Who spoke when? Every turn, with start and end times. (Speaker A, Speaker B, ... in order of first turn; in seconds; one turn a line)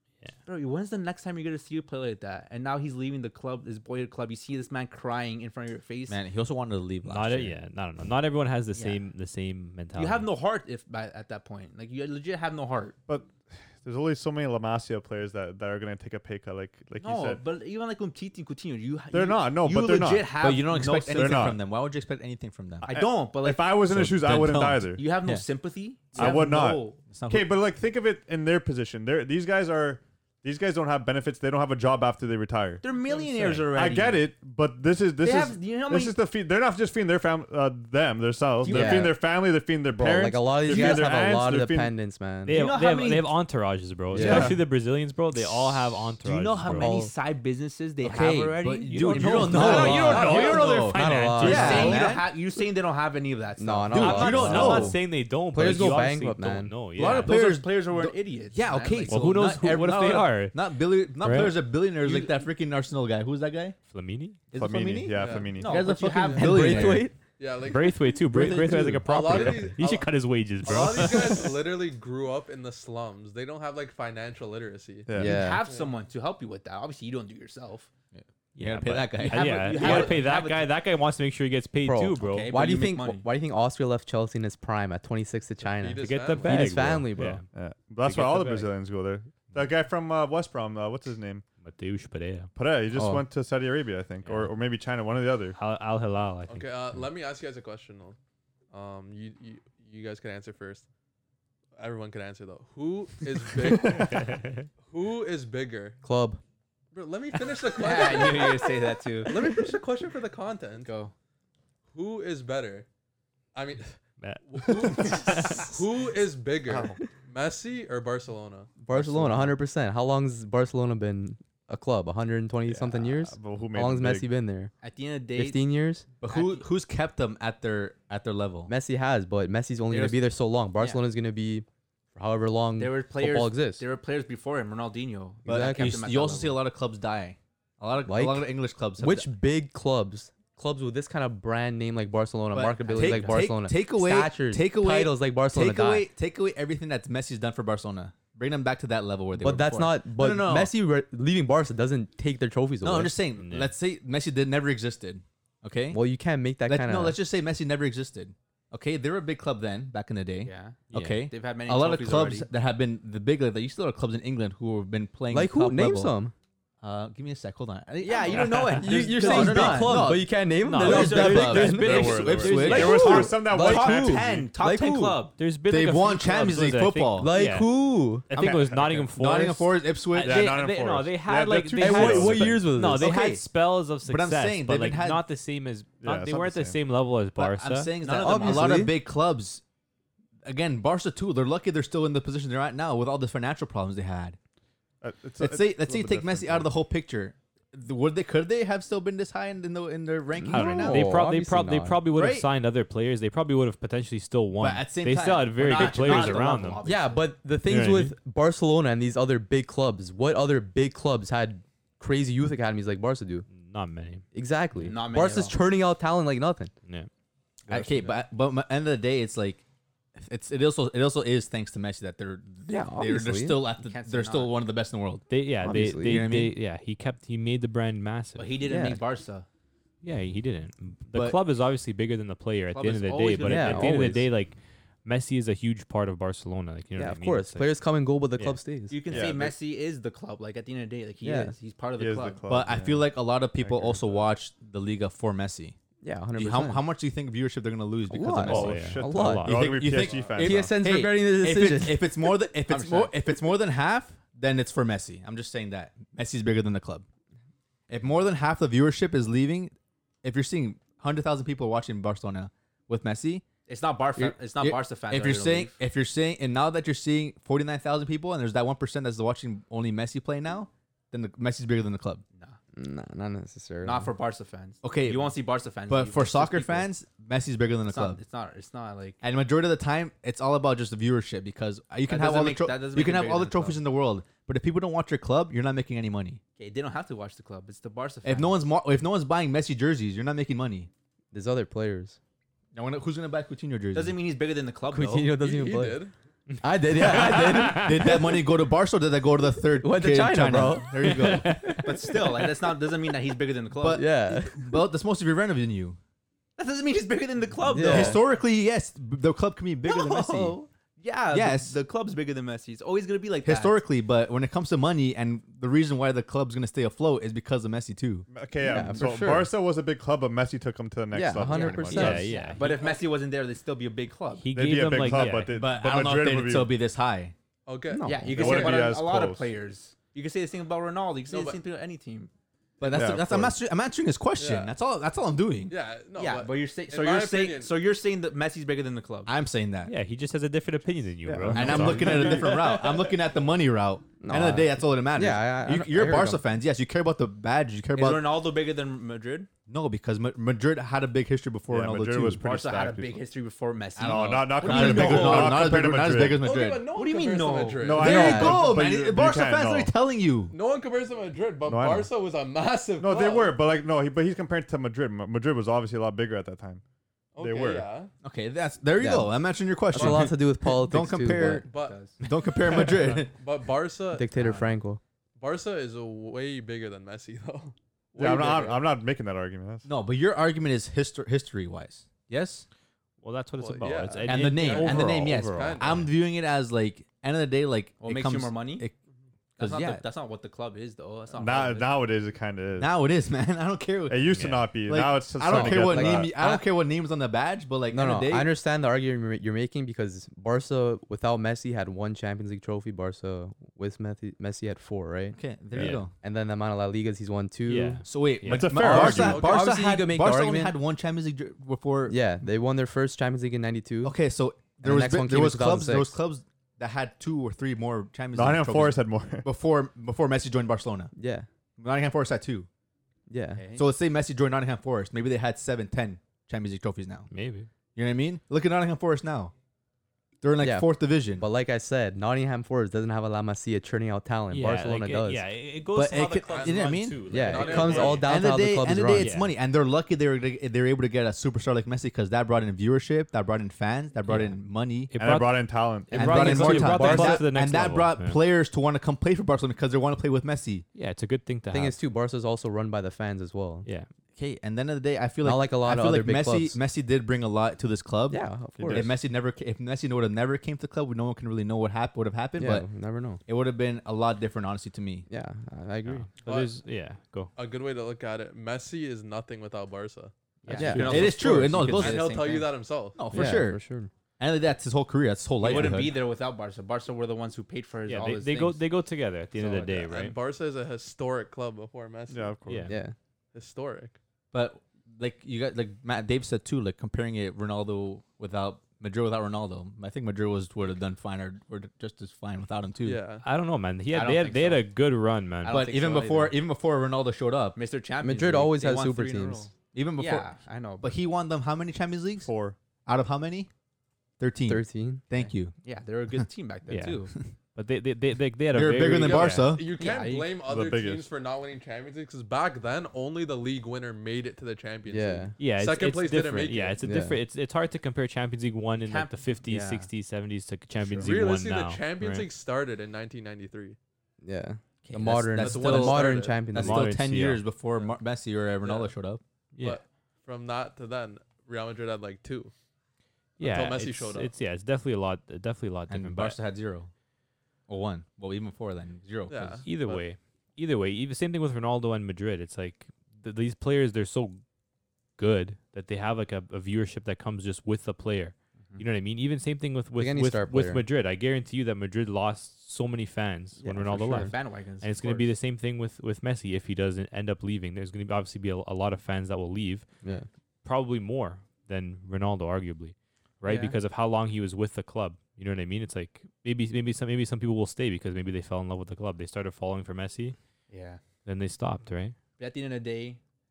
Speaker A: 0.5-6.2
Speaker B: 6.1-7.6
Speaker C: 7.0-10.3
Speaker A: 8.8-9.0
Speaker A: 9.9-13.0
Speaker D: 13.1-17.4
Speaker A: 17.0-21.5
Speaker D: 19.1-20.4
Speaker B: 20.4-22.9
Speaker D: 21.1-21.6
Speaker A: 22.8-23.9
Speaker D: 22.9-25.0
Speaker B: 23.9-25.5
Speaker A: 24.9-27.0
Speaker D: 26.1-32.8
Speaker B: 27.1-27.5
Speaker A: 32.8-34.3
Speaker D: 33.5-41.9
Speaker A: 35.2-36.2
Speaker A: 38.6-39.1
Speaker E: 38.7-39.2
Speaker E: 39.9-42.7
Speaker A: 40.7-41.0
Speaker C: 42.5-47.0
Speaker A: 42.5-43.3
Speaker E: 44.1-44.6
Speaker B: 44.2-44.5
Speaker D: 44.2-44.5
Speaker A: 45.7-50.8
Speaker E: 46.7-47.1
Speaker B: 48.0-52.3
Speaker C: 49.0-52.1
Speaker E: 49.4-52.1
Speaker F: 49.8-51.0
Speaker A: 51.4-55.0
Speaker E: 53.6-56.7
Speaker B: 53.9-55.0
Speaker C: 53.9-57.3
Speaker A: 57.0-59.3
Speaker B: 57.0-63.8
Speaker C: 59.1-60.6
Speaker C: 61.2-61.6
Speaker A: 62.0-62.3
Speaker C: 63.9-64.4
Speaker B: 64.5-67.1
Speaker D: 64.5-65.9
Speaker F: 65.1-65.6
Speaker A: 65.5-67.0
Speaker E: 66.3-67.2
Speaker F: 67.4-68.2
Speaker C: 67.7-71.6
Speaker B: 68.3-69.7
Speaker F: 69.0-75.1
Speaker D: 75.1-75.5
Speaker E: 75.1-75.6
Speaker A: 75.1-77.9
Speaker B: 78.1-80.2
Speaker C: 78.6-82.5
Speaker A: 79.2-80.7
Speaker E: 81.8-87.4
Speaker A: 82.2-83.2
Speaker F: 85.7-86.8
Speaker C: 86.0-87.5
Speaker D: 87.5-91.4
Speaker C: 88.0-88.7
Speaker C: 91.6-92.5
Speaker D: 92.6-95.6
Speaker E: 92.9-93.3
Speaker C: 94.2-94.5
Speaker C: 95.6-97.0
Speaker F: 96.5-98.2
Speaker F: 98.7-100.9
Speaker F: 101.8-106.0
Speaker C: 103.8-104.7
Speaker E: 106.0-106.4
Speaker F: 106.9-110.9
Speaker A: 107.7-109.5
Speaker A: 110.8-111.1
Speaker F: 111.9-112.9
Speaker F: 113.5-118.7
Speaker C: 114.2-115.8
Speaker D: 116.7-117.0
Speaker E: 118.8-124.7
Speaker B: 118.9-119.6
Speaker D: 122.7-124.3
Speaker A: 124.8-125.6
Speaker E: 125.3-126.1
Speaker B: 126.2-128.7
Speaker A: 126.3-126.7
Speaker E: 128.7-133.8
Speaker A: 129.9-130.2
Speaker A: 132.8-136.6
Speaker E: 135.4-136.0
Speaker B: 135.4-139.3
Speaker E: 138.1-146.1
Speaker B: 142.5-150.7
Speaker A: 142.8-143.5
Speaker E: 149.4-153.2
Speaker B: 152.8-156.0
Speaker C: 153.4-153.7
Speaker E: 155.9-157.2
Speaker B: 156.7-166.1
Speaker A: 160.4-162.5
Speaker C: 160.9-161.2
Speaker E: 165.3-166.3
Speaker B: 166.8-173.3
Speaker A: 168.0-170.1
Speaker C: 168.3-168.7
Speaker E: 168.8-175.2
Speaker C: 170.7-173.3
Speaker A: 170.8-171.8
Speaker D: 171.7-174.5
Speaker A: 172.8-175.4
Speaker C: 175.4-177.7
Speaker B: 175.7-177.3
Speaker E: 177.2-178.3
Speaker C: 178.3-187.9
Speaker D: 178.3-179.1
Speaker B: 178.4-180.6
Speaker D: 180.2-182.7
Speaker E: 181.8-183.1
Speaker B: 182.9-183.5
Speaker B: 184.0-185.2
Speaker D: 186.0-186.8
Speaker B: 187.4-189.6
Speaker A: 188.0-188.9
Speaker E: 188.2-189.0
Speaker B: 190.4-194.4
Speaker D: 195.0-196.7
Speaker B: 195.4-201.2
Speaker E: 200.4-202.0
Speaker C: 200.5-206.8
Speaker B: 202.1-202.5
Speaker B: 204.6-206.8
Speaker A: 205.6-207.3
Speaker E: 206.8-213.5
Speaker C: 207.7-208.2
Speaker C: 213.5-214.2
Speaker E: 214.3-216.7
Speaker A: 214.8-215.6
Speaker B: 217.7-219.6
Speaker B: 220.2-226.6
Speaker E: 222.7-223.6
Speaker A: 223.8-224.5
Speaker C: 225.3-228.6
Speaker E: 225.6-226.3
Speaker A: 228.4-229.5
Speaker E: 228.7-229.0
Speaker C: 230.0-237.7
Speaker B: 231.1-231.4
Speaker A: 232.7-234.2
Speaker E: 233.4-234.2
Speaker E: 237.0-239.0
Speaker A: 238.9-242.4
Speaker D: 239.1-239.6
Speaker E: 241.2-241.6
Speaker D: 242.0-244.2
Speaker B: 242.5-245.8
Speaker E: 246.0-246.8
Speaker B: 246.4-257.1
Speaker E: 248.1-249.5
Speaker C: 248.5-249.8
Speaker D: 248.5-250.7
Speaker E: 250.4-252.3
Speaker A: 252.7-253.1
Speaker B: 257.9-263.4
Speaker A: 263.7-265.8
Speaker B: 264.2-272.2
Speaker E: 272.8-274.1
Speaker A: 273.8-276.9
Speaker B: 274.8-275.4
Speaker B: 275.9-278.2
Speaker A: 277.9-279.2
Speaker B: 279.2-286.4
Speaker A: 282.1-283.8
Speaker A: 286.6-288.6
Speaker B: 288.2-290.9
Speaker E: 291.3-292.2
Speaker B: 292.7-294.2
Speaker A: 293.9-295.4
Speaker E: 294.9-296.0
Speaker F: 295.4-296.1
Speaker C: 296.5-298.1
Speaker E: 296.6-298.2
Speaker B: 297.1-301.8
Speaker E: 299.8-302.2
Speaker C: 301.3-301.6
Speaker A: 301.8-304.1
Speaker B: 303.8-306.0
Speaker E: 303.9-304.7
Speaker A: 306.6-308.3
Speaker E: 307.6-308.2
Speaker B: 307.8-310.6
Speaker A: 309.9-313.8
Speaker B: 311.3-311.8
Speaker B: 313.4-318.3
Speaker D: 318.3-322.4
Speaker E: 318.6-319.5
Speaker E: 321.1-322.3
Speaker A: 321.5-324.5
Speaker C: 321.9-322.6
Speaker F: 322.6-323.0
Speaker C: 324.4-325.5
Speaker D: 324.5-326.7
Speaker B: 325.5-327.4
Speaker F: 327.7-328.9
Speaker E: 327.9-328.5
Speaker A: 328.1-332.3
Speaker D: 328.2-329.5
Speaker F: 331.3-331.6
Speaker B: 332.8-335.7
Speaker D: 332.9-333.6
Speaker F: 334.4-334.7
Speaker F: 335.7-337.7
Speaker A: 336.2-339.3
Speaker B: 339.3-339.9
Speaker C: 339.9-342.5
Speaker D: 341.3-342.6
Speaker B: 341.5-348.3
Speaker E: 344.2-346.4
Speaker A: 347.9-349.5
Speaker B: 349.7-352.4
Speaker D: 351.7-353.2
Speaker A: 352.4-355.7
Speaker D: 354.0-356.4
Speaker B: 354.0-356.9
Speaker F: 356.3-358.6
Speaker A: 356.9-358.6
Speaker D: 357.8-359.9
Speaker B: 358.0-360.5
Speaker F: 360.5-363.6
Speaker D: 361.7-362.1
Speaker D: 363.0-366.8
Speaker F: 367.4-368.1
Speaker D: 367.4-367.9
Speaker B: 368.2-371.7
Speaker E: 369.0-369.3
Speaker E: 369.9-371.7
Speaker F: 371.6-372.0
Speaker A: 371.7-372.2
Speaker B: 372.2-373.3
Speaker F: 373.3-374.3
Speaker E: 374.1-375.0
Speaker A: 374.4-374.7
Speaker F: 375.4-378.8
Speaker D: 378.2-379.9
Speaker B: 379.9-382.7
Speaker C: 383.2-386.1
Speaker F: 383.6-386.0
Speaker B: 384.3-388.9
Speaker A: 388.0-388.9
Speaker B: 389.6-390.0
Speaker A: 389.6-392.0
Speaker D: 391.3-392.9
Speaker B: 392.8-398.5
Speaker D: 394.1-396.4
Speaker C: 394.4-394.7
Speaker E: 395.5-396.3
Speaker E: 397.9-405.4
Speaker B: 405.3-406.1
Speaker C: 405.8-406.0
Speaker E: 406.2-408.0
Speaker C: 407.7-408.8
Speaker B: 408.1-412.2
Speaker D: 408.5-409.5
Speaker E: 408.7-410.8
Speaker F: 409.1-409.6
Speaker E: 412.1-414.2
Speaker B: 414.0-421.1
Speaker E: 414.8-416.2
Speaker D: 418.3-419.5
Speaker E: 421.1-421.5
Speaker B: 421.8-422.7
Speaker E: 423.3-423.6
Speaker A: 423.6-423.9
Speaker B: 423.7-427.3
Speaker C: 427.3-427.7
Speaker B: 427.9-429.5
Speaker B: 430.4-431.4
Speaker E: 430.6-435.4
Speaker C: 434.5-438.3
Speaker B: 435.9-445.1
Speaker F: 436.4-438.3
Speaker E: 437.3-439.3
Speaker C: 439.2-439.5
Speaker C: 444.3-444.6
Speaker C: 445.1-448.4
Speaker D: 445.2-446.3
Speaker E: 446.1-447.4
Speaker B: 446.1-450.9
Speaker C: 450.9-452.0
Speaker E: 451.7-453.9
Speaker B: 454.4-462.9
Speaker E: 455.4-456.8
Speaker E: 458.3-459.1
Speaker D: 458.8-459.2
Speaker E: 462.6-463.4
Speaker B: 463.5-465.3
Speaker E: 465.3-466.3
Speaker C: 466.1-467.5
Speaker F: 466.4-466.8
Speaker F: 467.6-470.3
Speaker A: 470.6-472.7
Speaker C: 470.7-471.3
Speaker E: 470.8-471.3
Speaker B: 471.0-472.4
Speaker F: 471.9-473.2
Speaker B: 473.1-473.8
Speaker E: 473.3-474.1
Speaker B: 474.4-476.2
Speaker A: 475.6-478.8
Speaker C: 478.1-480.4
Speaker A: 479.6-480.1
Speaker F: 480.0-482.6
Speaker D: 482.3-483.0
Speaker C: 482.7-482.9
Speaker E: 482.9-483.1
Speaker F: 483.5-484.2
Speaker B: 484.5-493.2
Speaker F: 493.0-493.5
Speaker C: 493.4-495.8
Speaker A: 494.1-494.9
Speaker A: 495.6-496.6
Speaker B: 495.7-497.8
Speaker A: 497.8-501.1
Speaker E: 498.2-499.7
Speaker B: 499.9-502.5
Speaker D: 502.4-502.8
Speaker B: 503.1-503.7
Speaker B: 504.4-505.8
Speaker E: 504.7-505.2
Speaker A: 505.4-507.3
Speaker C: 506.9-509.7
Speaker B: 508.7-509.9
Speaker F: 509.1-517.0
Speaker A: 510.0-510.6
Speaker D: 510.6-511.3
Speaker E: 515.1-515.6
Speaker C: 515.6-522.5
Speaker E: 517.0-517.4
Speaker A: 519.0-520.1
Speaker F: 521.1-524.0
Speaker E: 524.4-527.1
Speaker B: 525.0-529.4
Speaker F: 525.6-526.6
Speaker C: 526.7-527.6
Speaker F: 528.8-529.1
Speaker C: 529.7-530.0
Speaker F: 529.8-532.7
Speaker F: 533.6-534.5
Speaker C: 533.6-536.6
Speaker B: 536.1-537.1
Speaker B: 537.9-539.8
Speaker F: 539.5-540.3
Speaker C: 539.9-544.6
Speaker C: 545.4-560.1
Speaker E: 550.2-551.0
Speaker E: 553.8-554.5
Speaker A: 554.1-555.5
Speaker C: 560.8-570.6
Speaker A: 563.6-564.0
Speaker A: 570.9-571.2
Speaker C: 571.5-572.4
Speaker A: 572.6-573.4